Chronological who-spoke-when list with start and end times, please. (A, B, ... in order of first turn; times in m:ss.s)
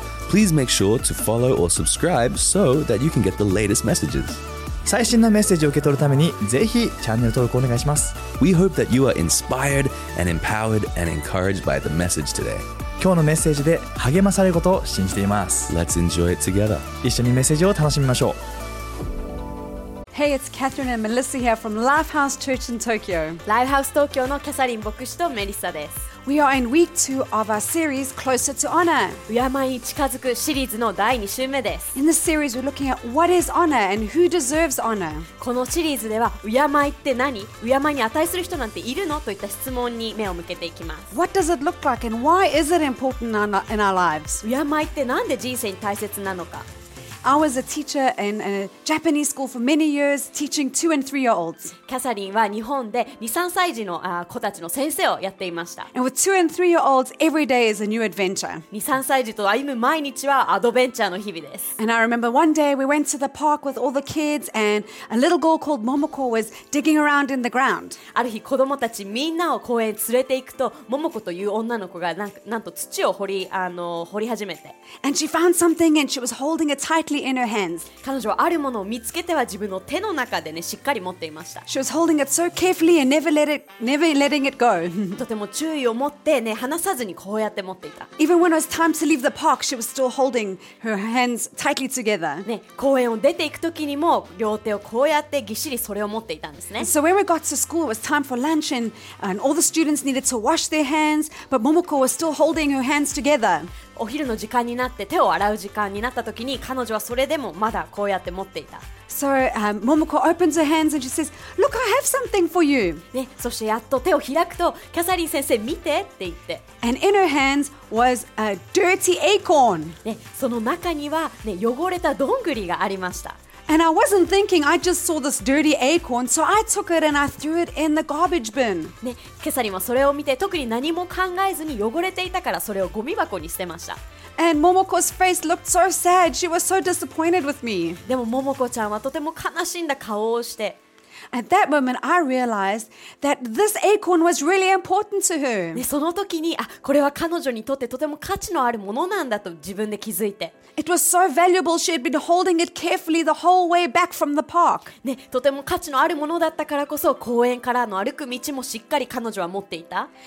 0:00.3-0:04.4 A
0:04.8-0:08.2 B
0:08.4-0:12.6 A
0:13.0-0:15.7 B
0:15.7-0:16.9 A
0:17.0-0:18.4 B
0:20.1-0:23.4 C
0:23.4-0:26.0 D
0:26.2-0:29.2 C
0:29.3-0:31.9 D
0:31.9-0:35.3 C
0:35.4-0:41.1 D
0:41.1-0:44.4 C
0:44.4-0:46.6 D
0:47.2-0:51.8 C
0:51.9-0:55.9 D
0:55.9-0:58.6 C
0:58.7-1:01.7 D
1:01.8-1:08.0 C
1:08.1-1:14.7 D
1:15.0-1:17.9 C
1:18.0-1:21.6 D
1:21.7-1:25.2 C
1:25.1-1:28.1 D
1:28.2-1:32.4 C
1:32.4-1:36.9 D
1:36.8-1:43.7 C
1:44.0-1:48.8 D
1:49.1-1:53.0 C
1:53.1-1:56.6 D
1:56.8-2:00.0 C
2:00.0-2:03.4 D
2:03.7-2:09.0 C
2:09.0-2:14.0 D
2:14.4-2:18.0 C
2:18.0-2:20.8 D
2:21.3-2:25.8 C
2:25.7-2:30.5 D
2:30.8-2:34.9 C
2:35.0-2:40.1 D